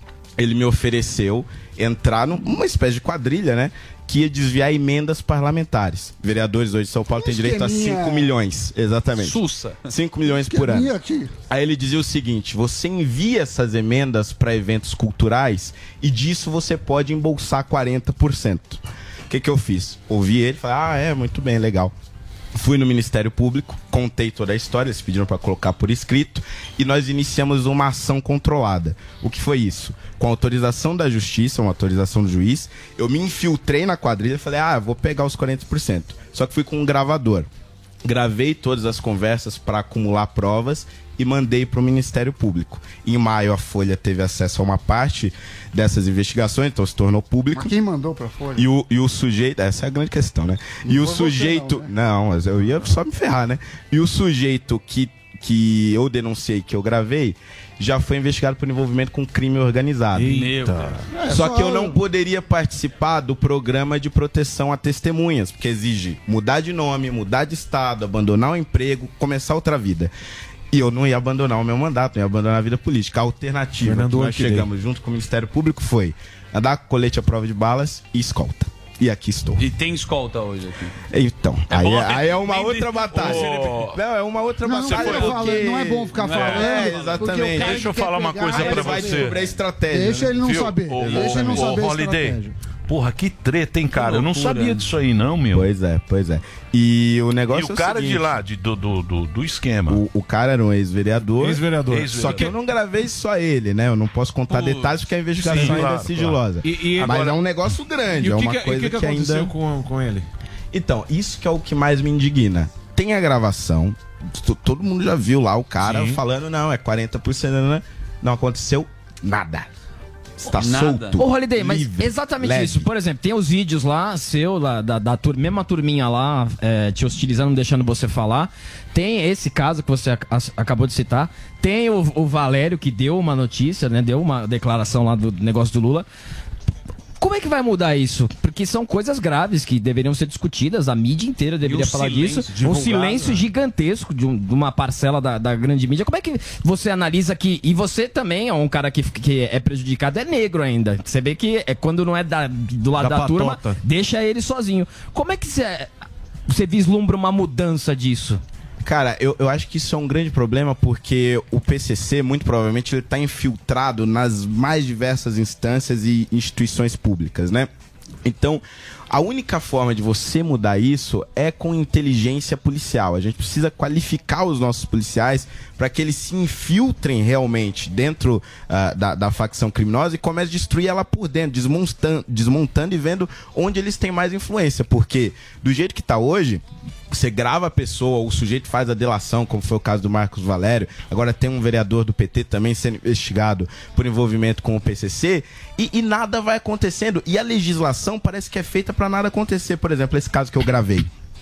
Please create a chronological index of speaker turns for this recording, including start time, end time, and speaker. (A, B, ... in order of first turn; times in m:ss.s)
0:00.4-0:10.9 A
0:07.2-0:08.3 B
0:09.2-0:09.8 C
0:10.5-0:11.3 B
0:11.5-0:21.9 A
0:22.5-0:37.5 A
0:38.0-0:47.7 A
0:47.5-0:48.7 B
0:48.6-1:00.3 A
0:50.8-0:51.9 B
1:00.2-1:00.9 C
1:00.2-1:01.0 D
1:01.1-1:02.0 B
1:01.3-1:10.1 A
1:10.7-1:19.6 A
1:13.8-1:14.7 D
1:19.6-1:20.9 C
1:21.1-1:27.9 A
1:21.7-1:23.8 C
1:22.8-1:24.0 E
1:24.6-1:32.5 B
1:24.9-1:25.2 E
1:26.2-1:27.5 C
1:26.3-1:26.8 E
1:27.5-1:29.4 E
1:28.5-1:30.4 A
1:30.4-1:35.7 E
1:31.0-1:31.7 A
1:33.9-1:34.8 C
1:35.5-1:38.3 A
1:37.5-1:40.0 E
1:39.9-1:49.5 A
1:41.4-1:42.5 D
1:41.9-1:42.6 E
1:44.5-1:44.9 C
1:45.4-1:46.4 E
1:45.5-1:45.8 D
1:46.6-1:47.4 D
1:47.0-1:47.3 E
1:48.1-1:50.3 D
1:50.7-1:59.7 A
2:00.4-2:02.9 A
2:00.5-2:01.2 C
2:01.2-2:16.0 F
2:17.2-2:35.9 F
2:21.6-2:22.4 C
2:22.4-2:23.5 D
2:33.0-2:33.8 D
2:36.5-2:38.4 F
2:38.8-2:47.7 A
2:48.2-3:21.1 A